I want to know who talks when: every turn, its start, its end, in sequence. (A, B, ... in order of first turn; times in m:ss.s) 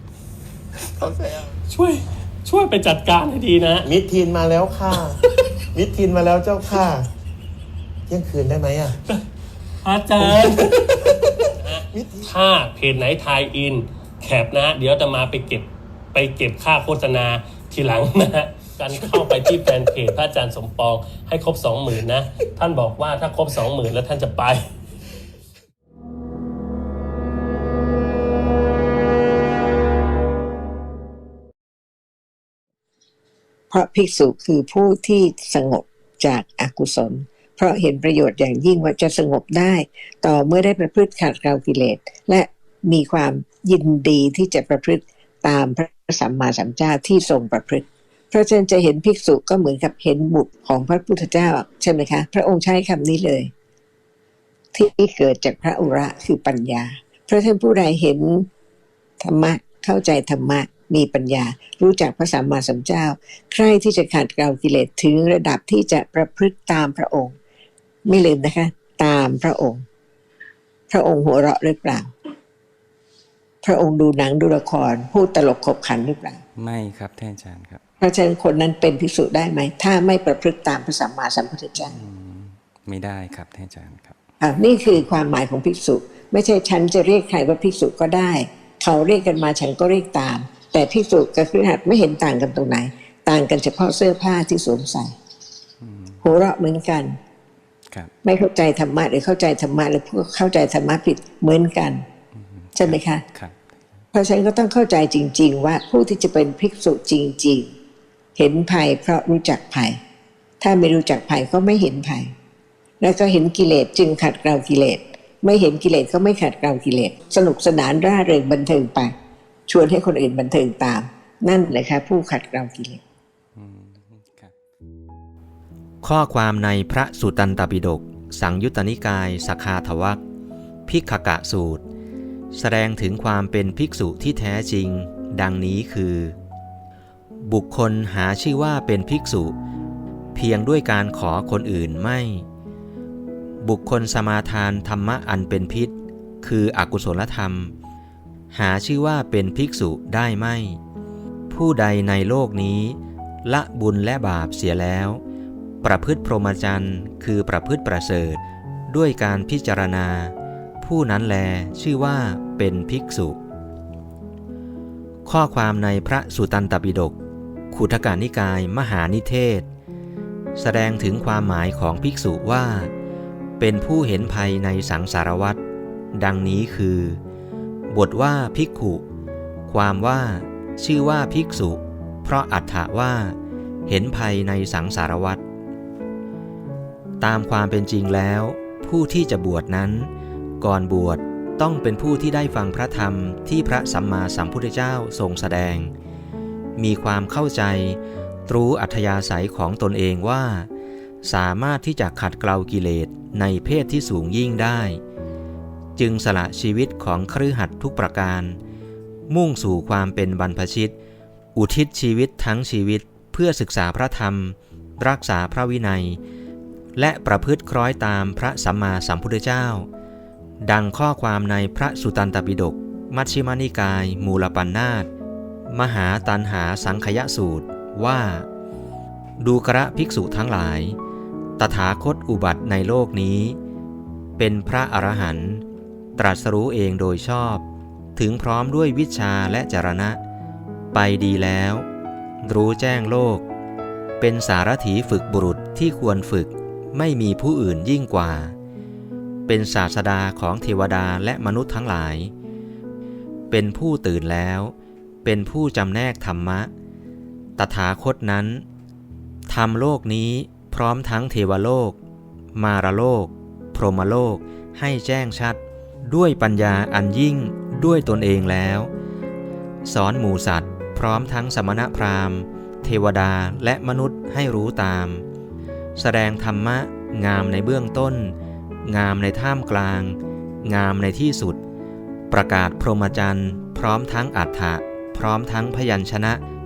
0:01.0-0:01.5 A
0:01.7-0:03.9 B
0:03.8-0:05.2 A
0:05.7-0:07.1 A
0:08.1-0:09.0 A
0:09.8-0:11.1 B
0:10.2-0:10.7 A
0:11.7-0:24.6 B
0:11.9-0:12.3 A
0:33.7-0:53.5 C
0:54.7-0:58.5 C
0:59.2-1:07.4 C
1:08.0-1:09.8 C
1:10.9-1:12.1 C
1:13.6-1:16.4 C
1:16.6-1:17.8 D
1:18.0-1:22.0 C
1:21.8-1:24.2 D
1:24.4-1:35.1 C
1:35.8-1:36.2 D
1:36.2-1:37.2 C
1:38.2-1:42.0 C
1:42.3-1:44.0 D
1:42.8-1:43.2 C
1:44.1-1:47.7 C
1:48.4-1:50.0 C
1:50.6-1:52.3 C
1:53.0-1:59.1 C
1:59.7-2:03.0 C
2:03.5-2:04.5 D
2:06.0-2:10.2 E
2:10.9-2:11.8 E
2:12.5-2:16.4 E
2:17.4-2:19.6 E
2:20.3-2:22.4 E
2:23.6-2:27.7 E
2:28.5-2:30.8 E
2:31.5-2:35.2 E
2:35.8-2:43.4 E
2:45.2-2:47.2 E
2:47.7-2:49.7 E
2:50.6-2:52.9 E
2:53.6-2:55.6 E
2:56.2-2:57.2 E
2:57.9-2:59.0 E
2:59.7-3:05.4 E
3:07.2-3:15.9 E
3:16.8-3:20.7 E
3:21.2-3:25.0 E
3:26.0-3:28.6 E
3:29.3-3:30.9 E
3:31.5-3:36.2 E
3:37.0-3:39.9 E
3:40.6-3:45.1 E
3:45.7-3:48.5 E
3:49.4-3:51.0 E
3:51.6-3:53.6 E
3:54.4-3:55.6 E
3:56.2-3:57.6 E
3:58.2-4:00.2 E
4:00.9-4:01.9 E
4:02.4-4:03.4 E
4:04.2-4:08.6 E
4:09.5-4:12.3 E
4:13.5-4:16.7 E
4:17.6-4:18.6 E
4:19.5-4:22.0 E
4:22.6-4:28.9 E
4:29.8-4:35.2 E
4:36.0-4:41.6 E
4:42.3-4:46.4 E